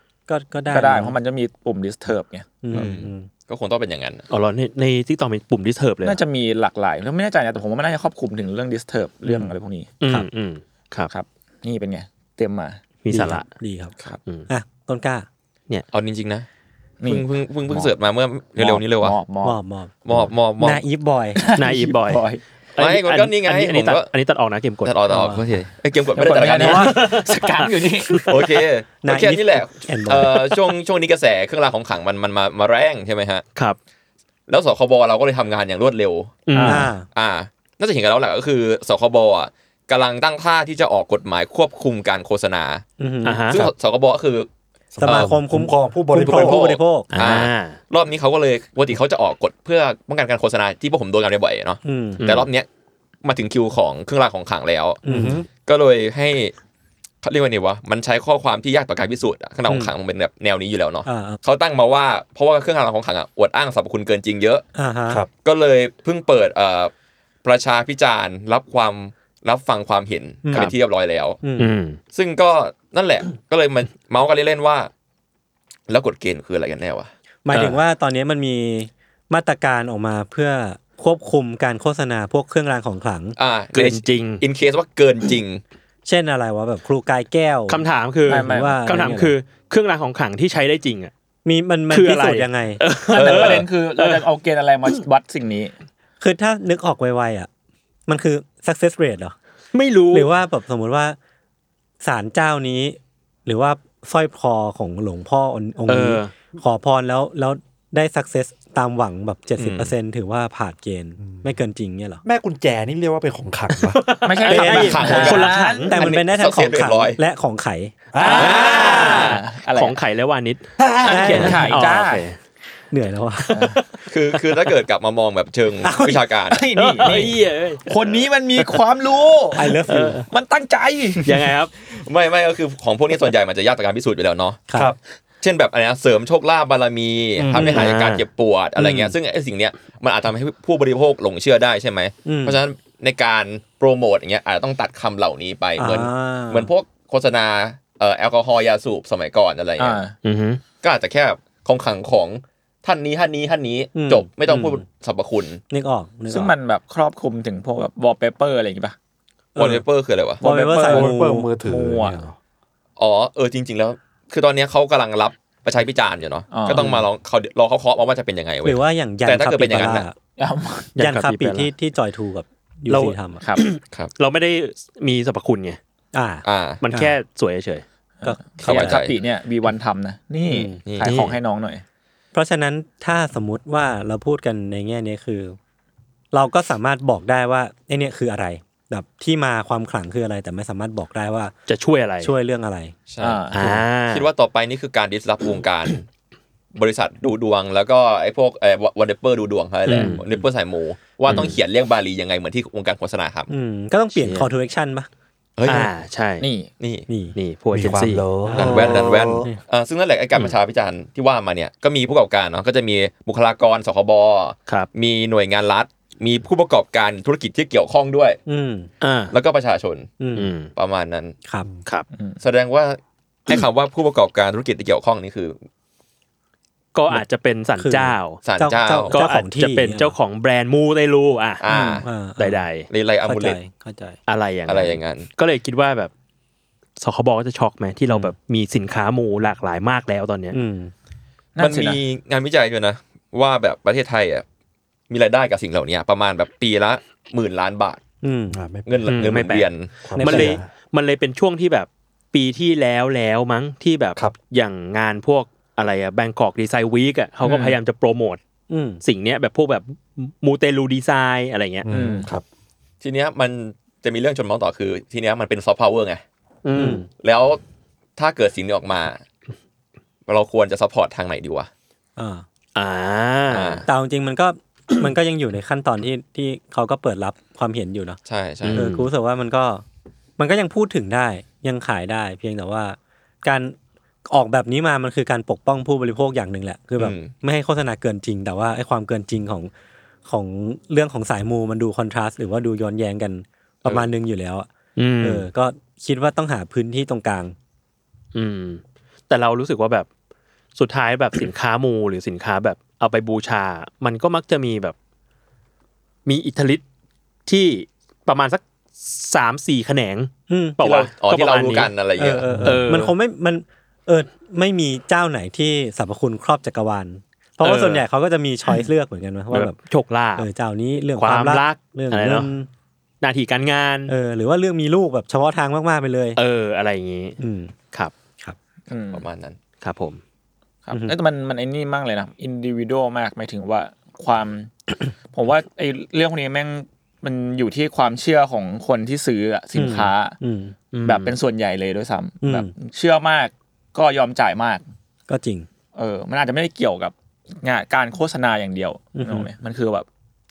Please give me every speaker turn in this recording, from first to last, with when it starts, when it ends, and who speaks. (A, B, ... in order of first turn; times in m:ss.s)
0:00.3-0:01.2 A
0:00.7-0:02.6 B
0:02.6-0:03.3 A
0:02.7-0:04.2 C
0:04.3-0:06.2 D
0:06.0-0:09.9 B
0:10.0-0:11.1 D
0:11.1-0:12.8 B
0:13.0-0:13.5 D
0:13.1-0:13.9 A
0:14.5-0:15.3 A
0:15.9-0:16.5 C
0:17.0-0:17.9 B
0:17.1-0:19.2 C
0:18.6-0:19.6 B
0:19.4-0:19.9 A
0:20.0-0:20.8 C
0:20.6-0:21.5 A
0:21.4-0:22.4 B
0:21.6-0:25.0 D
0:22.8-0:24.1 C
0:24.8-0:27.0 C
0:25.1-0:25.5 A
0:26.1-0:28.5 B
0:26.6-0:28.5 D
0:28.3-0:33.4 C
0:29.0-0:30.5 A
0:34.5-0:36.5 C
0:36.5-0:36.9 D
0:36.5-0:36.9 B
0:36.6-0:37.1 A
0:37.0-0:42.8 C
0:43.0-0:43.4 A
0:43.2-0:43.7 D
0:43.5-0:44.5 C
0:44.9-0:46.7 E
0:45.0-0:47.1 A
0:46.3-0:52.7 C
0:47.1-0:47.8 D
0:51.8-0:52.2 A
0:52.2-0:52.5 D
0:53.2-0:55.0 C
0:55.0-0:55.4 A
0:55.1-0:55.5 E
0:55.6-0:56.5 C
0:57.2-1:04.6 C
1:01.1-1:01.4 A
1:04.8-1:05.2 A
1:05.4-1:06.9 C
1:07.4-1:11.4 C
1:10.5-1:10.7 A
1:11.4-1:11.7 A
1:11.6-1:12.0 D
1:12.1-1:14.9 C
1:15.9-1:17.1 C
1:17.5-1:23.4 A
1:17.5-1:17.8 D
1:23.4-1:25.6 C
1:23.7-1:24.4 D
1:26.0-1:29.4 A
1:27.7-1:31.1 D
1:28.3-1:28.9 B
1:31.4-1:32.8 A
1:31.9-1:34.3 D
1:33.1-1:35.7 B
1:33.1-1:33.7 C
1:36.2-1:37.5 A
1:38.1-1:39.3 A
1:39.7-1:40.3 D
1:40.1-1:41.2 A
1:42.0-1:52.2 A
1:45.9-1:46.3 D
1:49.6-1:49.9 C
1:51.2-1:51.5 E
1:52.2-1:54.0 E
1:53.8-1:56.0 D
1:54.2-1:55.9 B
1:54.5-1:57.9 A
1:54.8-1:57.2 C
1:58.1-1:59.2 E
1:58.2-2:00.0 B
1:58.2-2:02.4 D
2:00.8-2:02.3 B
2:01.1-2:01.8 A
2:02.9-2:03.6 A
2:03.5-2:04.7 D
2:03.5-2:03.8 B
2:04.1-2:06.6 C
2:05.8-2:06.2 A
2:06.5-2:11.5 B
2:06.8-2:08.8 D
2:09.6-2:10.2 A
2:09.9-2:10.2 D
2:11.2-2:11.7 D
2:11.9-2:14.6 C
2:15.4-2:30.0 C
2:17.4-2:17.8 E
2:17.6-2:18.2 D
2:18.8-2:19.1 A
2:22.2-2:22.6 A
2:25.8-2:26.7 A
2:29.8-2:30.1 B
2:30.2-2:30.6 D
2:30.8-2:35.6 C
2:34.0-2:34.8 A
2:35.7-2:36.5 A
2:36.3-2:39.0 B
2:39.6-2:39.8 A
2:39.6-2:40.4 C
2:40.4-2:41.5 A
2:40.4-2:42.2 B
2:40.9-2:42.4 E
2:43.0-2:50.1 C
2:46.5-2:46.9 B
2:46.7-2:47.0 D
2:48.6-2:50.2 A
2:50.4-2:50.9 B
2:51.0-2:53.4 A
2:51.0-2:51.7 D
2:52.9-2:55.8 D
2:53.4-2:53.8 B
2:53.8-2:54.1 C
2:56.1-2:57.2 A
2:56.4-2:56.8 C
2:56.8-2:57.8 D
2:58.2-2:59.0 A
2:58.2-3:01.8 B
2:58.6-2:59.2 C
3:00.5-3:00.8 A
3:00.8-3:01.2 C
3:02.3-3:05.6 A
3:06.3-3:11.5 A
3:11.7-3:12.4 D
3:12.2-3:12.9 A
3:13.1-3:13.4 C
3:13.2-3:13.8 B
3:13.5-3:14.3 D
3:14.0-3:16.1 C
3:16.8-3:23.5 C
3:19.9-3:20.2 D
3:21.3-3:21.6 D
3:23.5-3:25.1 A
3:24.2-3:24.5 D
3:25.6-3:25.9 C
3:25.7-3:26.5 D
3:26.4-3:26.7 B
3:26.8-3:27.1 C
3:27.1-3:27.4 A
3:27.4-3:28.3 D
3:27.7-3:29.5 E
3:28.5-3:29.6 A
3:28.5-3:38.4 C
3:38.5-3:38.9 A
3:39.0-3:39.3 D
3:39.3-3:40.2 C
3:40.2-3:40.5 A
3:40.4-3:40.7 D
3:40.8-3:41.4 C
3:42.1-3:42.4 B
3:42.4-3:45.6 C
3:47.0-3:48.4 D
3:47.8-3:50.2 A
3:48.4-3:49.2 C
3:49.1-3:51.6 D
3:51.6-3:52.1 C
3:51.7-3:52.0 B
3:52.0-3:52.7 A
3:52.4-3:52.9 D
3:52.9-3:53.6 C
3:53.2-3:54.2 A
3:54.3-3:56.1 D
3:54.7-3:55.3 C
3:57.0-4:00.6 D
4:00.5-4:00.9 A
4:01.6-4:02.0 B
4:01.6-4:04.4 C
4:05.1-4:08.0 C
4:08.2-4:08.6 A
4:08.5-4:08.9 E
4:08.9-4:09.9 C
4:09.1-4:18.4 D
4:10.0-4:10.7 E
4:10.2-4:10.6 A
4:17.5-4:17.7 B
4:18.7-4:19.0 A
4:19.0-4:21.9 D
4:21.8-4:22.4 E
4:21.9-4:22.3 B
4:23.0-4:26.2 C
4:26.6-4:27.0 D
4:26.8-4:27.1 A
4:27.2-4:27.6 C
4:28.2-4:29.2 C
4:30.3-4:31.7 C
4:32.2-4:32.4 A
4:32.8-4:33.8 D
4:33.5-4:33.9 C
4:33.9-4:38.2 A
4:38.3-4:38.8 C
4:38.6-4:39.1 D
4:38.7-4:39.8 A
4:40.4-4:43.8 A
4:44.3-4:49.7 A
4:47.0-4:47.3 C
4:50.3-4:54.7 A
4:55.0-4:55.5 D
4:55.2-4:57.6 A
4:58.4-5:00.1 D
5:00.8-5:05.0 D
5:06.3-5:06.8 D
5:07.5-5:11.9 D
5:10.5-5:10.8 A
5:10.8-5:12.5 C
5:12.2-5:19.8 A
5:12.5-5:12.9 E
5:12.6-5:13.1 D
5:17.6-5:18.0 D
5:19.5-5:20.5 D
5:20.4-5:22.7 A
5:21.2-5:22.5 D
5:23.2-5:24.1 D
5:24.1-5:26.4 A
5:26.4-5:27.4 D
5:27.4-5:27.7 A
5:28.9-5:29.3 B
5:29.1-5:29.6 C
5:29.8-5:30.2 D
5:30.9-5:34.7 B
5:30.9-5:31.2 A
5:35.3-5:40.4 B
5:39.8-5:40.7 A
5:40.9-5:41.4 D
5:41.0-5:44.8 B
5:42.4-5:42.7 A
5:45.3-5:45.7 A
5:46.0-5:50.1 B
5:49.2-5:49.5 A